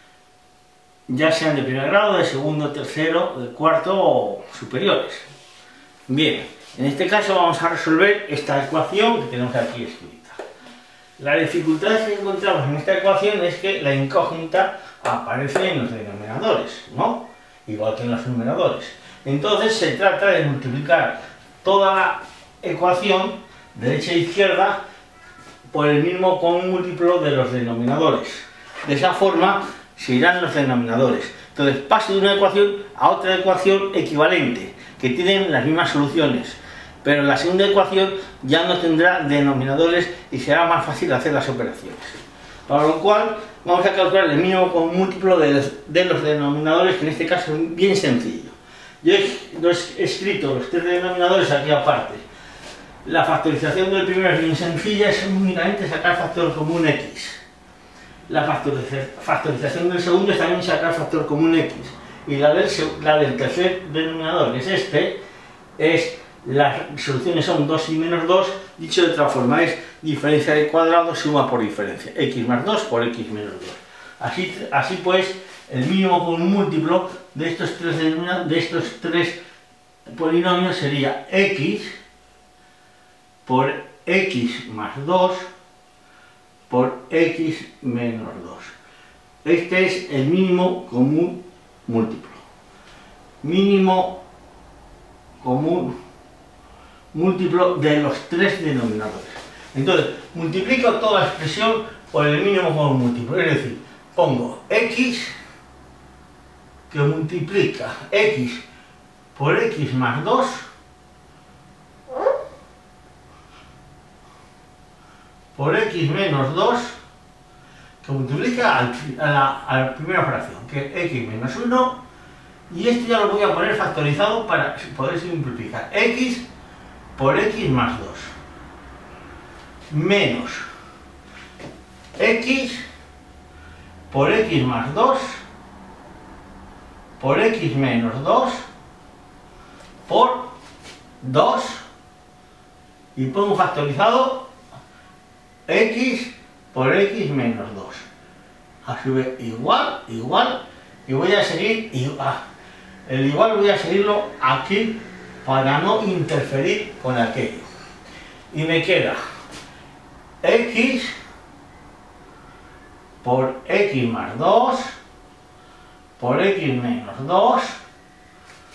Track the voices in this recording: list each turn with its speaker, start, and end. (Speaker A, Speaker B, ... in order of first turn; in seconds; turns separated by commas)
Speaker A: 1.1-5.2, Speaker A: 6.1-10.4, Speaker A: 11.2-24.8, Speaker A: 25.7-52.2, Speaker A: 53.0-57.4, Speaker A: 58.3-65.2, Speaker A: 65.8-79.4, Speaker A: 80.1-81.9, Speaker A: 83.5-85.5, Speaker A: 86.7-88.7, Speaker A: 89.4-92.4, Speaker A: 93.4-94.2, Speaker A: 95.4-95.9, Speaker A: 97.1-105.3, Speaker A: 106.9-108.6, Speaker A: 109.3-110.7, Speaker A: 115.5-117.0, Speaker A: 118.0-122.0, Speaker A: 122.7-126.5, Speaker A: 127.2-128.3, Speaker A: 129.9-130.6, Speaker A: 132.2-132.8, Speaker A: 134.1-135.4, Speaker A: 137.2-138.6, Speaker A: 140.1-140.5, Speaker A: 141.2-141.8, Speaker A: 143.2-144.5, Speaker A: 145.7-148.0, Speaker A: 148.8-152.4, Speaker A: 153.1-157.7, Speaker A: 158.5-159.2, Speaker A: 160.4-161.1, Speaker A: 163.2-164.9, Speaker A: 166.2-167.8